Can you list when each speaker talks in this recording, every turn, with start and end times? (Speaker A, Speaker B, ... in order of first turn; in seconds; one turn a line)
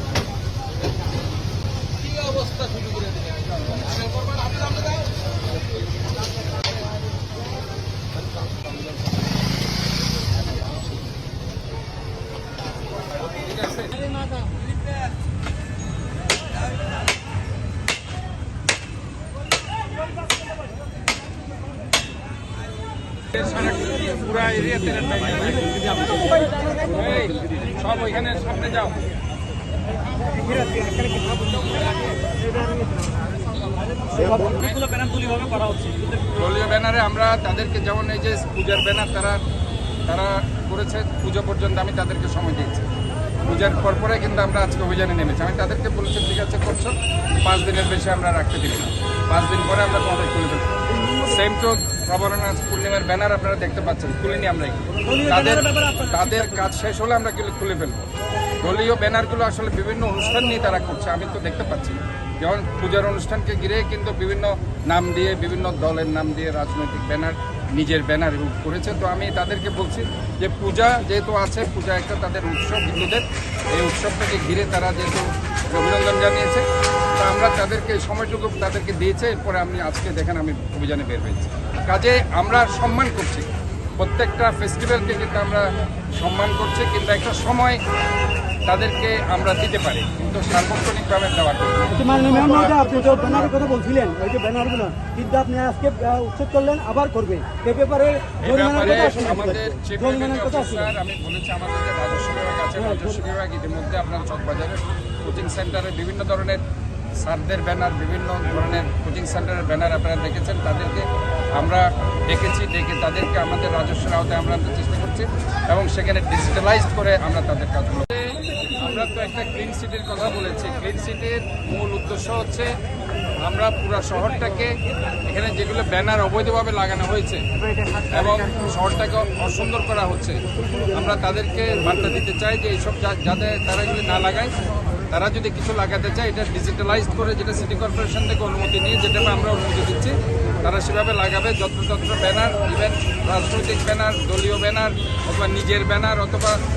Speaker A: 23.3-25.7
Speaker A: 26.9-28.9
Speaker A: 36.3-39.4
Speaker A: 40.1-42.8
Speaker A: 43.5-46.9
Speaker A: 47.4-50.7
Speaker A: 51.2-58.0
Speaker B: 55.1-55.6
Speaker B: 56.2-56.5
Speaker A: 58.6-76.6
Speaker A: 77.2-83.5
Speaker A: 84.0-87.8
Speaker A: 88.7-93.5
Speaker B: 91.9-100.9
Speaker A: 98.4-106.6
Speaker B: 102.8-103.2
Speaker A: 107.2-111.0
Speaker A: 111.6-118.2
Speaker A: 118.8-122.7
Speaker A: 123.4-124.7
Speaker A: 125.3-127.4
Speaker A: 128.1-130.4
Speaker A: 130.9-134.5
Speaker A: 135.1-146.6